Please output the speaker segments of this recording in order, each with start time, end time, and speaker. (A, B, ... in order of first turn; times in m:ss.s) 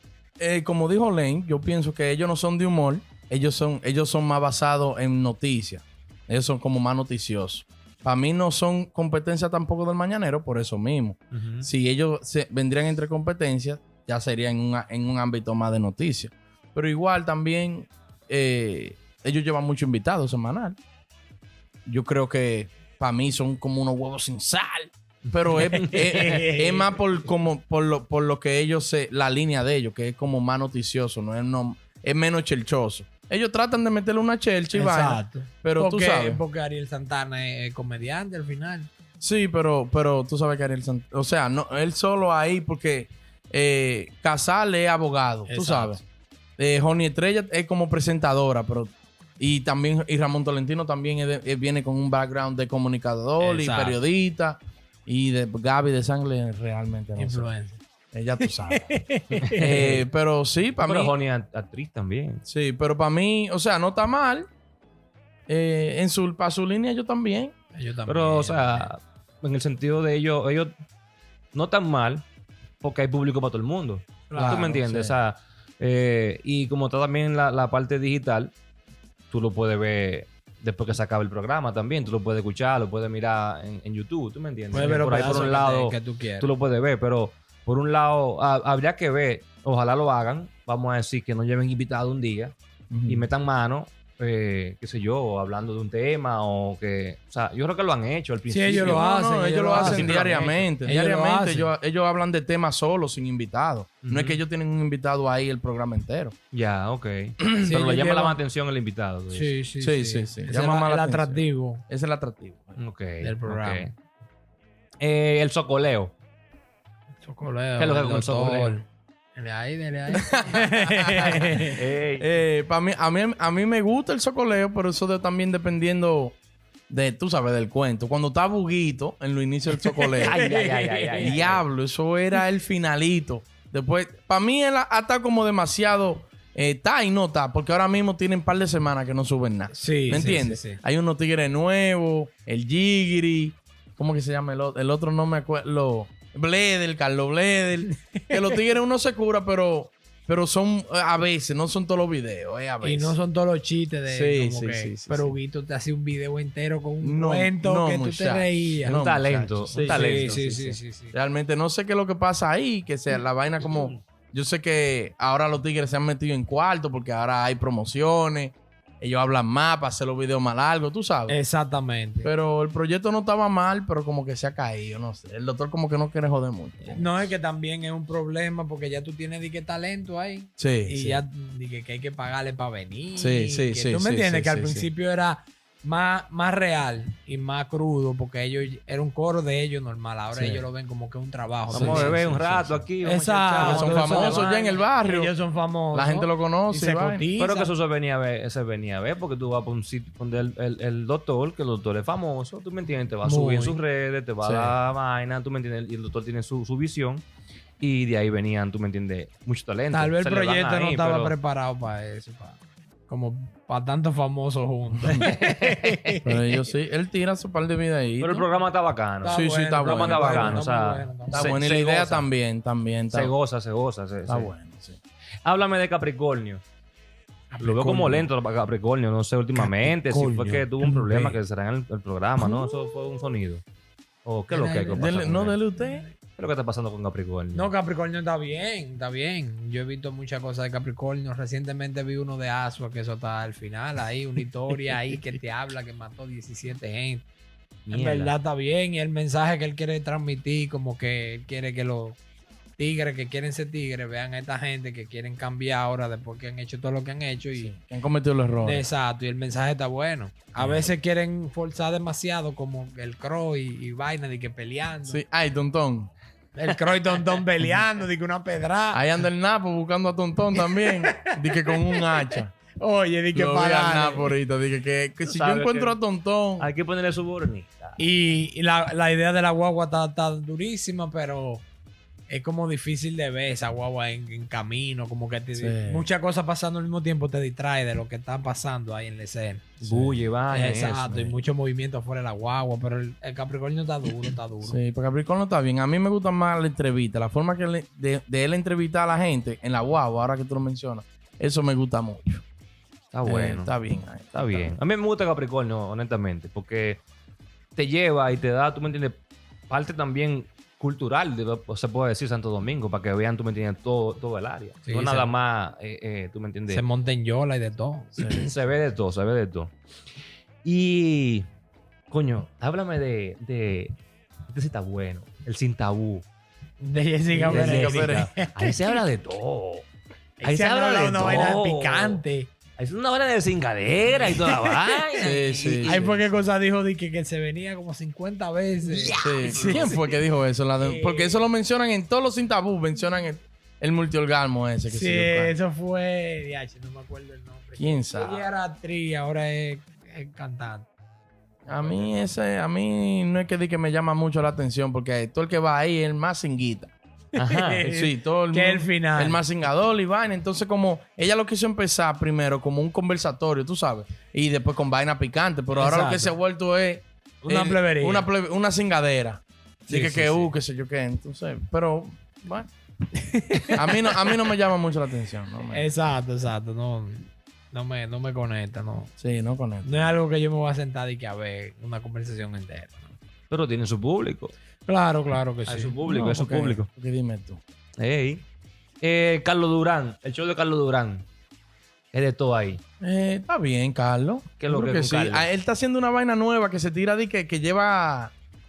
0:00.4-0:20.8 A
0:11.3-0:11.7 B
0:21.8-0:36.4 A
0:25.2-0:26.4 B
0:25.7-0:27.0 C
0:34.7-0:38.9 C
0:39.2-0:46.0 A
0:45.5-0:46.0 C
0:46.6-0:57.5 A
0:53.4-0:54.0 C
0:57.2-0:57.8 C
0:58.1-0:59.0 A
0:58.4-0:59.7 C
0:59.5-1:00.0 B
0:59.5-1:01.1 A
1:00.8-1:02.4 B
1:02.4-1:04.5 A
1:05.5-1:07.5 A
1:07.7-1:08.9 C
1:08.1-1:10.7 B
1:11.5-1:12.2 B
1:12.8-1:18.5 B
1:14.3-1:14.7 C
1:14.3-1:15.2 A
1:19.3-1:32.5 B
1:24.7-1:26.5 C
1:24.8-1:25.0 A
1:32.9-1:33.3 A
1:33.1-1:39.1 B
1:38.5-1:41.7 C
1:38.8-1:46.3 A
1:39.7-1:40.7 B
1:44.0-1:44.4 B
1:46.5-1:49.5 B
1:47.4-1:47.8 A
1:47.6-1:48.3 C
1:49.3-1:51.8 C
1:49.8-1:52.8 A
1:52.8-1:53.9 B
1:53.2-1:53.9 C
1:55.0-1:56.1 B
1:57.2-2:01.8 C
1:57.8-1:58.8 B
2:00.4-2:06.4 A
2:01.7-2:02.3 B
2:06.9-2:10.4 A
2:09.8-2:11.4 C
2:10.2-2:11.6 B
2:11.2-2:33.2 A
2:19.7-2:20.8 C
2:32.8-2:39.0 C
2:34.0-2:35.3 A
2:37.0-2:51.4 A
2:38.9-2:40.4 B
2:39.8-2:41.1 C
2:43.6-2:44.0 B
2:51.3-2:52.3 C
2:52.2-2:57.1 A
2:56.8-3:12.2 C
3:00.6-3:01.2 A
3:03.2-3:04.9 A
3:10.3-3:10.6 A
3:11.7-3:14.5 B
3:11.7-3:12.8 A
3:13.0-3:17.7 C
3:13.6-3:15.3 A
3:15.9-3:17.3 A
3:17.4-3:27.2 B
3:23.2-3:23.8 C
3:24.4-3:24.7 A
3:27.8-3:31.3 B
3:29.9-3:36.6 C
3:34.9-3:35.3 A
3:35.2-3:36.2 B
3:36.2-3:38.5 A
3:38.2-3:42.3 B
3:39.2-3:41.5 C
3:39.3-3:40.6 A
3:41.3-3:43.3 A
3:43.1-3:44.5 B
3:44.3-3:45.0 A
3:45.4-3:46.6 B
3:47.5-3:48.3 C
3:47.6-3:53.6 B
3:49.5-3:51.4 A
3:54.2-3:55.6 B
3:54.5-3:56.2 C
3:54.9-3:56.0 A
3:56.4-3:57.7 B
3:57.5-4:07.2 C
4:07.8-4:08.3 B
4:07.9-4:12.2 C
4:12.8-4:17.7 C
4:17.5-4:18.9 A
4:18.6-4:25.2 C
4:20.6-4:20.9 A
4:25.1-4:26.1 A
4:26.5-4:29.0 C
4:26.7-4:27.4 B
4:28.9-4:32.5 A
4:30.6-4:30.9 C
4:31.7-4:34.3 C
4:33.3-4:36.7 A
4:35.2-4:36.0 B
4:36.6-4:38.0 B
4:38.0-4:41.6 C
4:42.3-4:49.7 C
4:45.5-4:46.1 A
4:49.8-4:50.2 A
4:49.8-4:51.1 B
4:50.5-4:54.8 C
4:51.1-4:51.4 A
4:54.6-5:02.4 A
5:03.1-5:03.8 B
5:03.2-5:04.8 A
5:04.3-5:07.0 B
5:07.8-5:16.8 B
5:14.8-5:15.3 C
5:16.7-5:18.5 C
5:18.2-5:18.5 A
5:18.4-5:19.7 B
5:20.6-5:21.5 B
5:22.1-5:24.0 B
5:24.5-5:26.2 B
5:26.8-5:29.0 C
5:27.3-5:28.3 A
5:27.4-5:29.8 B
5:30.4-5:32.5 C
5:30.4-5:32.2 B
5:32.8-5:36.0 B
5:34.2-5:34.8 C
5:35.2-5:36.2 A
5:35.9-5:40.1 C
5:38.8-5:39.9 B
5:39.2-5:45.5 A
5:40.8-5:41.4 C
5:44.9-5:50.9 C
5:47.8-5:48.5 A
5:51.6-5:56.9 A
5:51.8-5:52.2 B
5:57.3-5:57.8 B
5:57.4-5:59.4 C
5:57.8-6:12.7 A
6:05.7-6:06.4 C
6:07.4-6:08.3 C
6:09.8-6:10.5 C
6:13.2-6:14.4 C
6:13.8-6:15.9 A
6:15.7-6:19.1 C
6:19.2-6:20.2 A
6:19.8-6:23.2 C
6:23.5-6:24.5 B
6:24.8-6:26.0 C
6:25.6-6:26.9 B
6:26.0-6:27.6 A
6:28.0-6:28.4 B
6:29.0-6:31.2 B
6:32.1-6:32.8 B
6:33.0-6:38.3 A
6:34.6-6:35.5 B